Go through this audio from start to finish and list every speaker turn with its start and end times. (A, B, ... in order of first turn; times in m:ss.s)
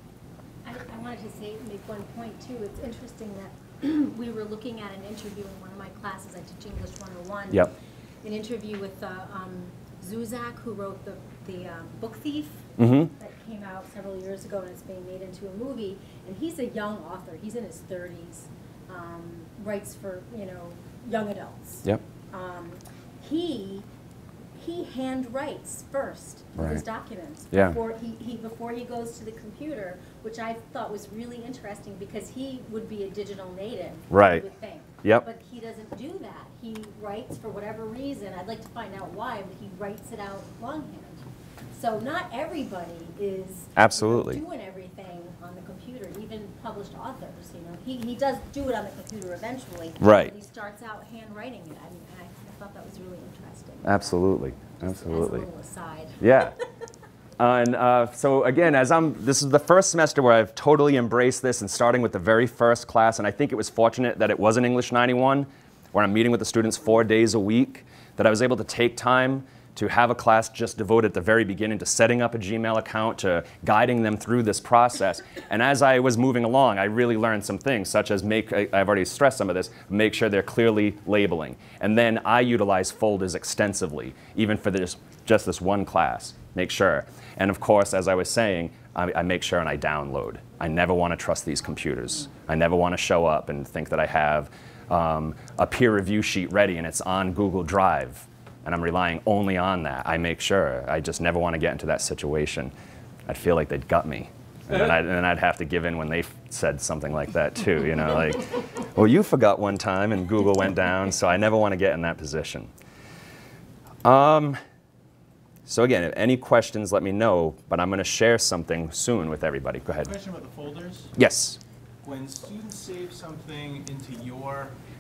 0:00.6-0:23.9 A
0:12.8-0:13.1 B
0:24.6-0:56.2 A
0:26.6-0:26.8 B
0:27.5-0:27.8 B
0:34.1-0:34.4 B
0:43.8-0:44.4 B
0:50.0-0:50.3 B
0:53.8-0:55.5 B
0:56.2-0:56.6 B
0:57.4-1:42.7 B
1:43.3-1:52.7 B
1:54.0-1:54.6 B
1:55.7-2:00.1 B
2:00.0-2:01.1 C
2:01.2-2:01.6 B
2:02.0-2:04.8 C